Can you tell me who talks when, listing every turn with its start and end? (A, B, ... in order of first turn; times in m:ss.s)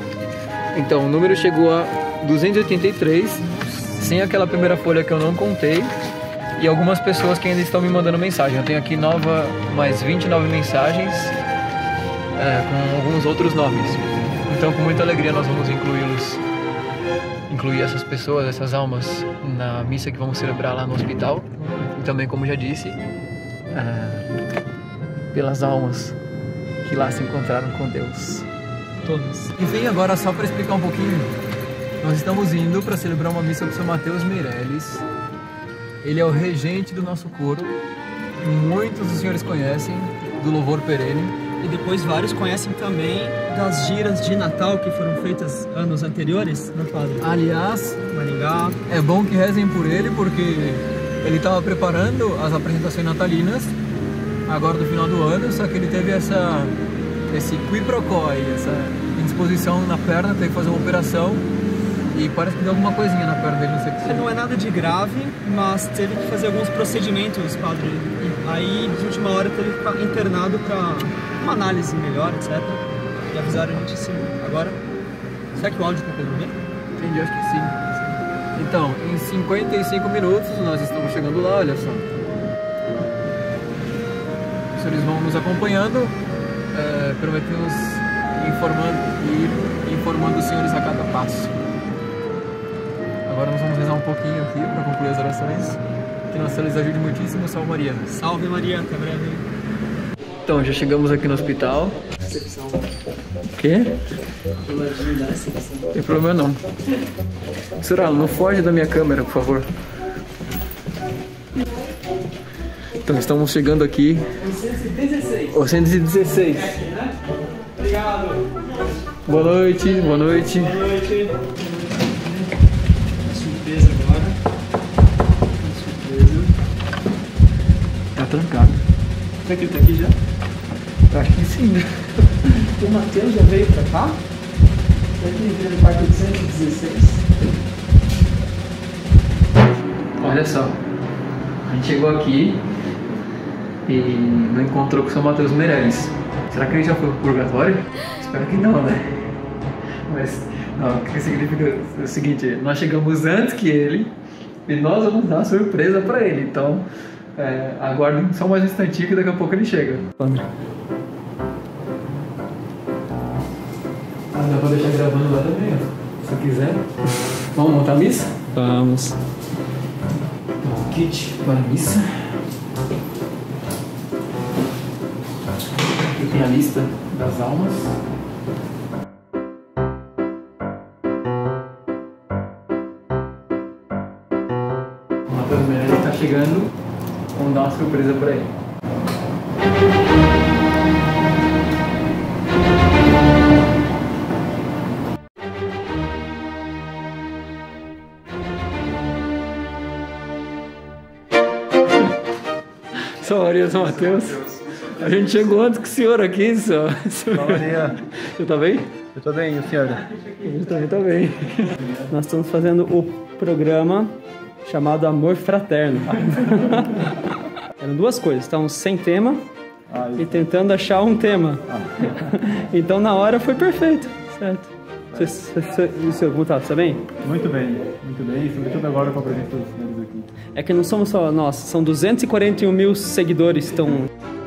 0:00.7-0:06.0 A
0:03.4-0:04.1 B
0:06.6-0:11.4 A
0:12.4-0:16.4 A
0:17.5-0:23.0 A
0:23.7-0:24.2 A
0:25.3-0:26.2 A
0:26.8-0:28.5 A
0:29.0-0:29.4 B
0:29.3-0:31.3 A
0:32.0-0:35.0 A
0:36.0-0:37.8 A
0:38.4-0:41.4 A
0:41.6-0:47.3 B
0:47.2-0:48.0 A
0:48.1-0:48.8 B
0:48.8-0:53.8 A
0:54.5-0:56.7 A
0:57.3-1:01.4 A
1:02.1-1:04.3 A
1:04.0-1:14.8 B
1:15.5-1:16.5 B
1:17.0-1:22.1 A
1:24.7-1:26.2 A
1:26.7-1:31.5 A
1:33.2-1:38.2 A
1:38.1-1:39.4 B
1:40.4-1:42.0 A
1:41.3-1:42.9 B
1:43.5-1:44.0 A
1:44.6-1:45.9 B
1:45.9-1:46.6 A
1:47.8-1:49.7 A
1:53.0-1:54.3 A
1:54.4-1:55.7 B
1:55.5-1:56.8 A
1:56.4-1:57.2 B
1:57.8-1:58.7 B
1:59.2-2:00.8 A
1:59.3-2:02.2 B
2:03.2-2:04.4 B
2:05.6-2:06.5 B
2:08.1-2:08.8 A
2:09.4-2:10.2 B
2:11.1-2:12.6 A
2:12.8-2:14.2 B
2:15.2-2:17.2 B
2:20.2-2:20.8 A
2:21.6-2:22.6 A
2:23.8-2:29.2 A
2:30.1-2:34.1 A
2:34.6-2:40.0 A
2:40.2-2:40.5 B
2:44.3-2:48.4 A
2:48.5-2:49.2 B
2:50.6-2:52.4 A
2:55.8-2:58.0 A
3:05.3-3:06.7 A
3:07.3-3:08.5 A
3:23.0-3:28.9 A
3:27.3-3:28.0 C
3:29.1-3:30.0 C
3:30.2-3:32.1 A
3:32.1-3:37.2 B
3:37.8-3:39.5 B
3:39.9-3:40.6 C
3:40.2-3:47.1 B
3:41.7-3:42.2 C
3:45.1-3:45.4 C
3:47.2-3:50.3 C
3:50.5-3:54.1 B